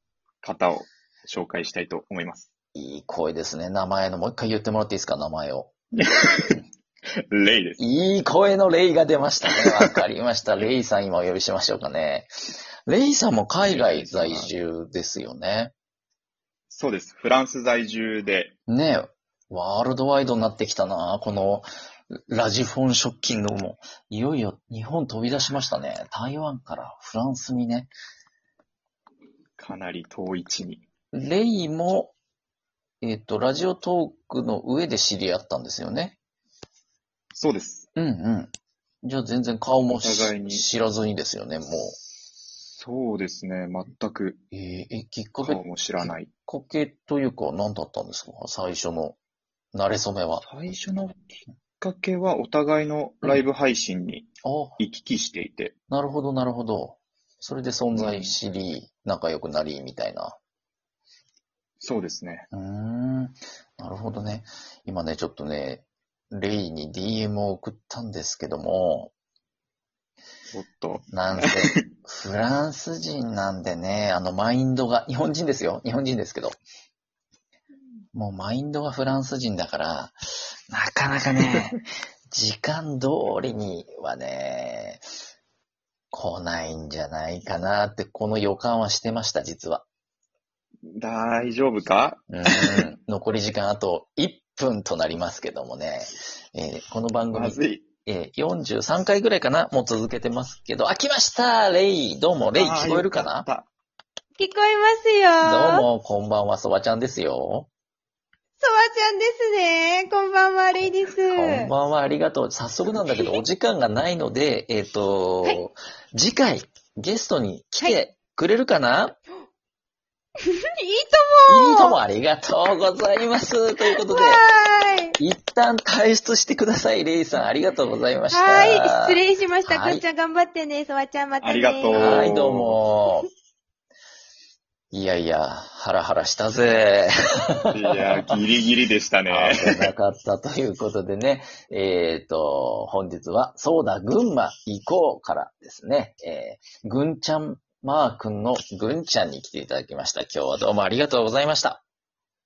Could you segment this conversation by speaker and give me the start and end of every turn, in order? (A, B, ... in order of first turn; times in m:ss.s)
0:00.4-0:02.5 A
0:02.7-0:05.7 B
0:06.0-0:06.6 A
0:07.3-0:07.8 A
0:07.8-0:12.3 B
0:09.6-0:09.9 A
0:12.8-0:15.7 B
0:13.6-0:14.5 A
0:16.7-0:18.5 A
0:18.7-0:27.9 B
0:29.6-0:30.8 A
0:31.1-0:32.1 B
0:33.0-0:36.1 B
0:37.3-0:37.9 A
0:38.0-0:38.5 B
0:39.0-0:42.0 B
0:39.9-0:40.7 A
0:42.7-0:44.4 A
0:44.5-0:49.2 B
0:45.4-0:46.3 A
0:49.7-0:50.4 B
0:50.4-0:55.7 A
0:54.4-0:54.8 B
0:55.9-1:00.4 B
0:57.9-0:58.4 A
1:01.8-1:02.4 A
1:02.5-1:09.1 B
1:10.5-1:11.8 A
1:11.1-1:16.6 B
1:18.1-1:21.8 B
1:22.3-1:25.0 B
1:26.1-1:29.8 B
1:30.8-1:32.9 A
1:32.3-1:43.5 B
1:37.3-1:37.8 A
1:42.5-1:43.7 A
1:44.4-1:45.8 C
1:45.4-1:47.7 B
1:48.6-1:51.7 C
1:50.8-1:59.2 B
2:00.4-2:02.0 C
2:01.5-2:04.4 B
2:03.9-2:05.2 C
2:05.2-2:10.0 B
2:08.3-2:12.2 C
2:11.4-2:12.8 A
2:11.9-2:13.3 B
2:14.9-2:18.3 B
2:17.7-2:19.9 A
2:19.3-2:31.8 B